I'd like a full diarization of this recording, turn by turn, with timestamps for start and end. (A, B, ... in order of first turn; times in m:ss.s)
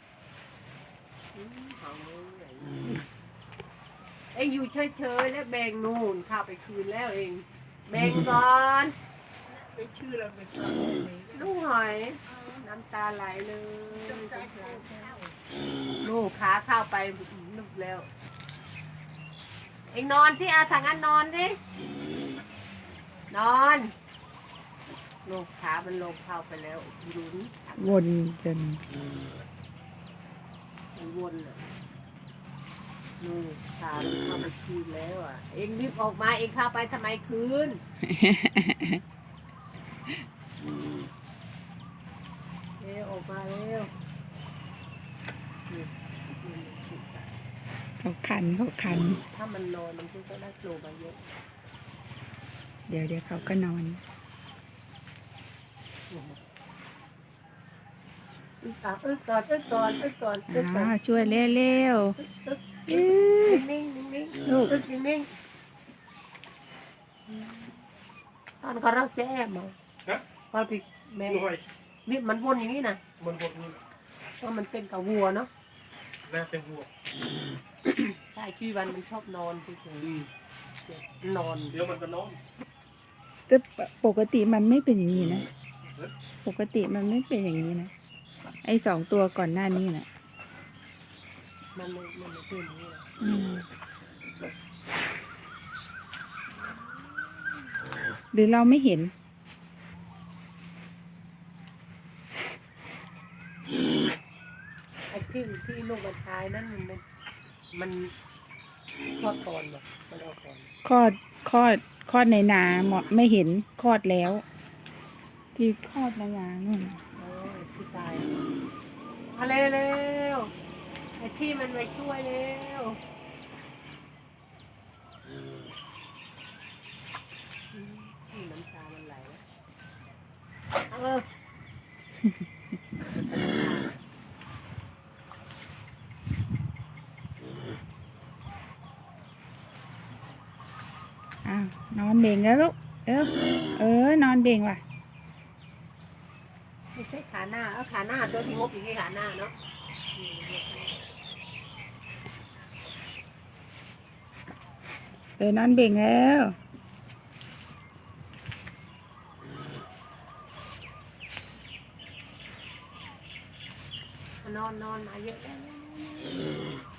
0:01.3-0:02.8 A
0:04.3-0:08.9 A
0:08.0-0:08.2 B
0:09.4-0:11.5 C
0:11.3-0:15.1 A
0:12.2-0:12.6 C
0:13.9-0:15.4 C
0:16.0-0:18.1 A
0:19.9-0:21.6 A
0:23.3-0:23.9 A
0:25.2-0:27.7 A
0:27.7-0:28.8 B
0:30.9-0:31.7 A
0:33.2-0:37.8 A
0:38.1-0:39.0 B
0:42.8-0:43.9 A
0:45.7-0:47.3 A
0:48.0-0:49.2 B
0:49.2-0:51.3 A
0:52.9-0:54.0 B
0:56.1-0:56.4 A
0:58.8-1:05.3 A
1:00.5-1:02.2 B
1:02.9-1:03.6 B
1:04.4-1:04.7 B
1:07.3-1:07.7 A
1:08.6-1:09.8 A
1:10.5-1:11.4 A
1:11.2-1:11.6 D
1:12.0-1:13.0 A
1:13.2-1:13.8 D
1:14.4-1:15.5 A
1:16.3-1:16.9 D
1:17.9-1:20.1 A
1:20.0-1:20.3 D
1:20.8-1:21.8 A
1:21.7-1:22.4 D
1:23.5-1:25.5 B
1:26.4-1:27.9 B
1:28.6-1:30.1 B
1:31.7-1:33.0 A
1:33.2-1:33.6 B
1:36.6-1:37.1 A
1:38.3-1:39.1 B
1:45.1-1:47.0 A
1:47.7-1:48.1 A
1:49.2-1:50.7 A
1:50.8-1:54.4 B
1:55.5-1:57.0 B
1:57.2-1:58.5 A
1:59.3-2:00.5 A
2:01.2-2:03.0 A
2:07.7-2:09.4 A
2:10.9-2:11.2 A
2:13.0-2:14.0 A
2:21.4-2:24.8 B
2:26.9-2:29.5 A
2:30.1-2:30.9 A
2:35.4-2:36.6 B
2:44.4-2:46.5 A